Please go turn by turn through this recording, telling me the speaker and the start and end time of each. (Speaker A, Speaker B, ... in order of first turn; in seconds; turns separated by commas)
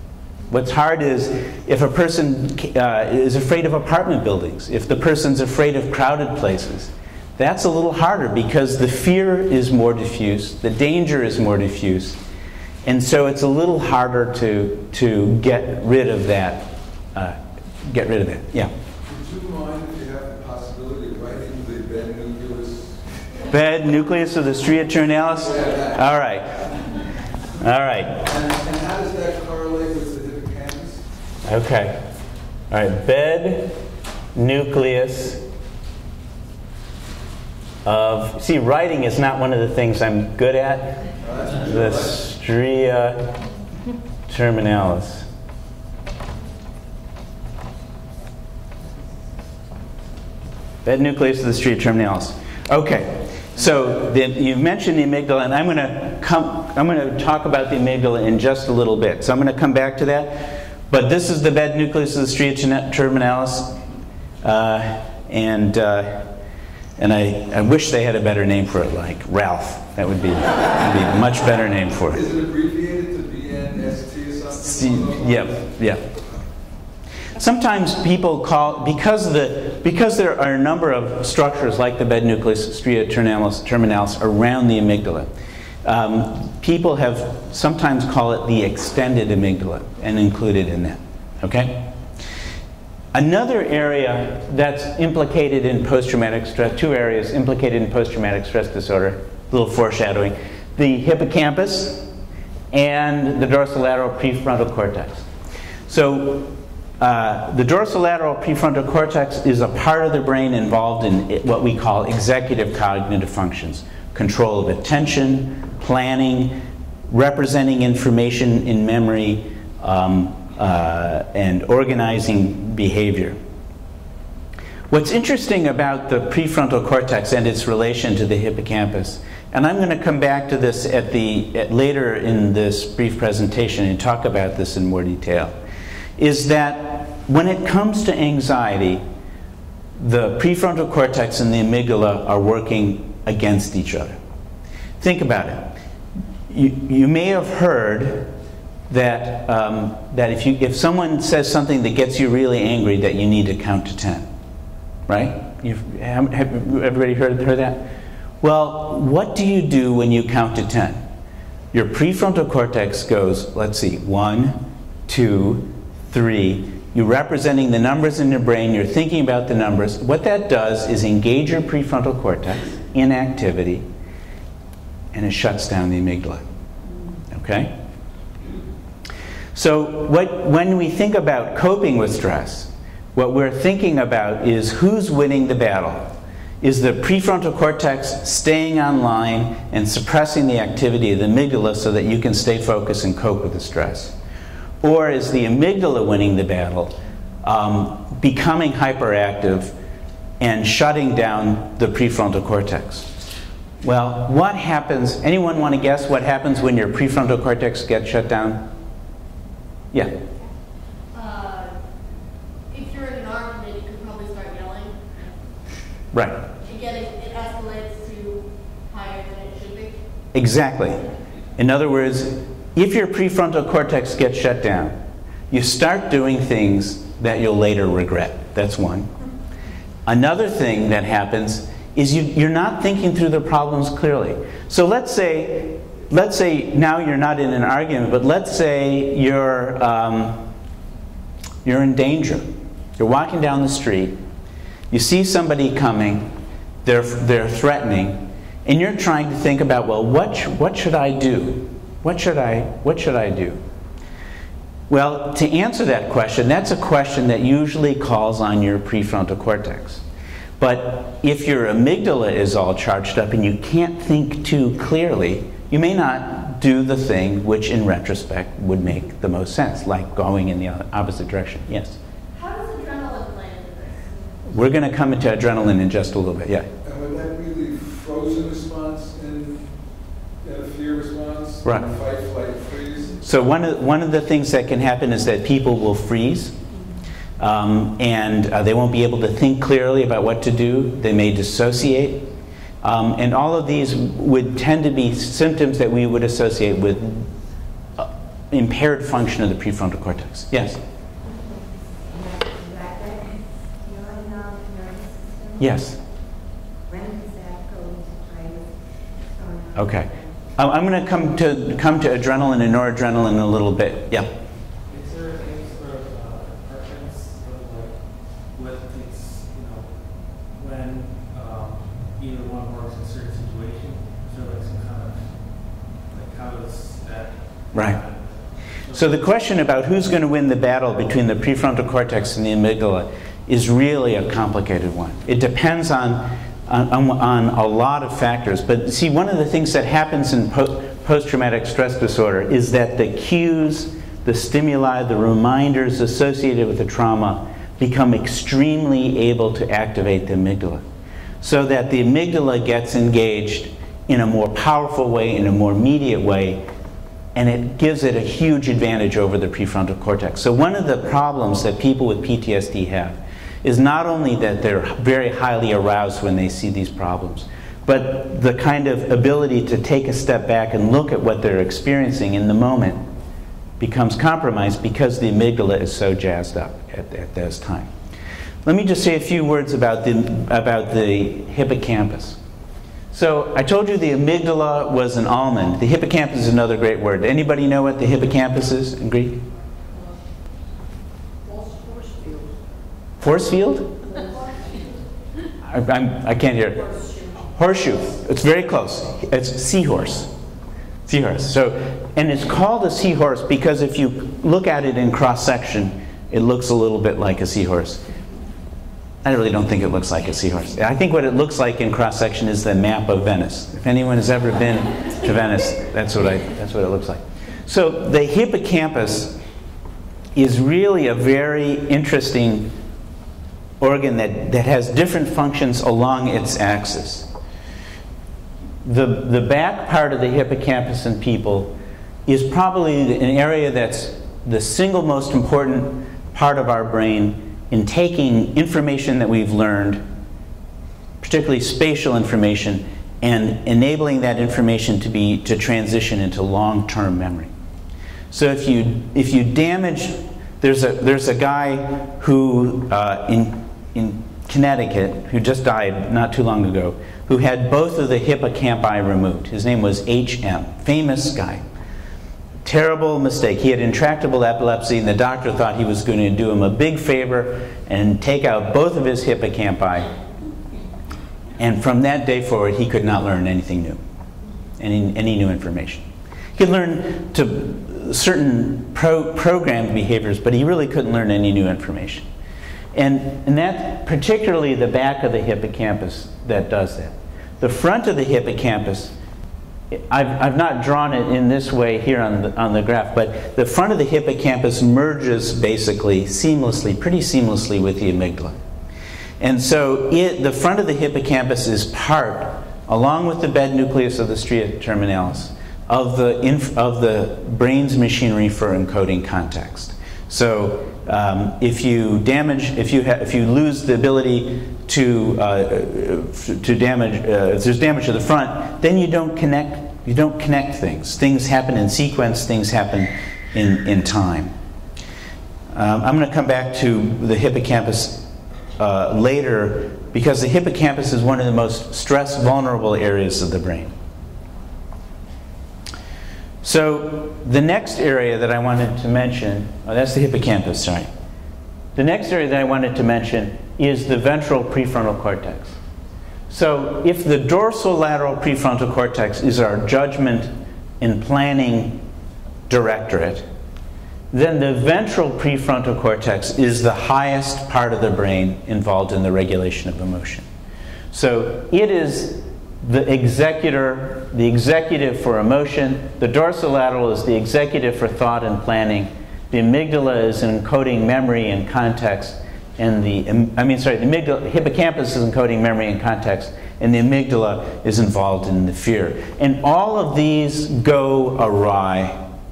Speaker A: 0.5-12.2, Speaker A: 12.8-18.7, Speaker B: 19.1-23.0, Speaker A: 23.5-26.9, Speaker B: 25.4-26.1, Speaker A: 27.6-28.2, Speaker B: 28.2-31.1, Speaker A: 31.4-32.1, Speaker A: 32.7-33.8, Speaker A: 34.4-35.4, Speaker A: 37.9-43.4, Speaker B: 41.2-42.3, Speaker A: 44.3-45.3, Speaker A: 50.8-63.8, Speaker A: 64.4-66.3, Speaker A: 67.0-72.2, Speaker B: 72.1-75.7, Speaker A: 74.6-76.0, Speaker A: 77.4-85.3, Speaker A: 85.8-92.0, Speaker A: 93.1-102.1, Speaker A: 102.7-105.3, Speaker A: 105.9-123.4, Speaker A: 124.9-135.6, Speaker A: 136.2-139.0, Speaker A: 140.0-144.2, Speaker A: 145.0-145.8, Speaker A: 146.5-148.3, Speaker A: 148.9-154.3, Speaker A: 155.1-157.8, Speaker A: 158.4-161.0, Speaker A: 161.7-173.9, Speaker A: 175.1-176.4, Speaker C: 176.9-177.2, Speaker A: 177.3-177.8, Speaker A: 179.5-194.2, Speaker A: 194.8-199.7, Speaker A: 200.4-203.2, Speaker A: 203.8-208.7, Speaker D: 211.1-211.8, Speaker D: 212.7-215.4, Speaker A: 216.1-216.4, Speaker D: 216.6-220.0, Speaker A: 220.3-221.1, Speaker A: 221.6-225.0, Speaker A: 225.5-229.1, Speaker A: 230.1-240.5, Speaker A: 241.6-244.2, Speaker A: 244.9-253.6, Speaker A: 254.9-260.0, Speaker A: 260.6-272.0, Speaker D: 272.3-274.2, Speaker A: 274.5-276.7, Speaker B: 276.8-279.7, Speaker B: 280.4-283.2, Speaker A: 281.6-281.9, Speaker A: 283.2-286.6, Speaker C: 286.7-287.0, Speaker A: 287.4-292.2, Speaker A: 292.8-297.3, Speaker A: 298.0-300.8, Speaker C: 301.2-306.0, Speaker A: 305.6-306.0, Speaker C: 306.9-310.4, Speaker A: 309.8-314.3, Speaker E: 314.9-329.5, Speaker A: 327.7-328.0, Speaker A: 328.9-350.8, Speaker A: 351.4-356.7, Speaker A: 357.4-373.0, Speaker A: 373.8-377.9, Speaker A: 378.6-382.4, Speaker A: 383.1-389.4, Speaker D: 389.6-390.2, Speaker D: 391.4-392.7, Speaker A: 393.2-394.0, Speaker D: 394.1-395.0, Speaker A: 395.6-396.8, Speaker D: 396.7-397.6, Speaker A: 397.5-400.3, Speaker A: 401.1-408.0, Speaker A: 409.2-419.4, Speaker A: 420.4-422.7, Speaker A: 423.8-427.3, Speaker A: 428.8-431.7, Speaker A: 432.3-440.0, Speaker A: 441.2-447.5, Speaker A: 448.3-461.6, Speaker A: 462.6-470.1, Speaker A: 471.6-474.0, Speaker A: 474.8-476.1, Speaker A: 476.6-482.2, Speaker A: 482.9-489.1, Speaker A: 489.9-498.6, Speaker A: 499.4-524.5, Speaker A: 525.7-533.9, Speaker A: 536.6-541.1, Speaker A: 542.0-545.8, Speaker A: 546.5-552.0, Speaker A: 552.7-553.5, Speaker A: 554.3-560.5, Speaker A: 561.1-582.2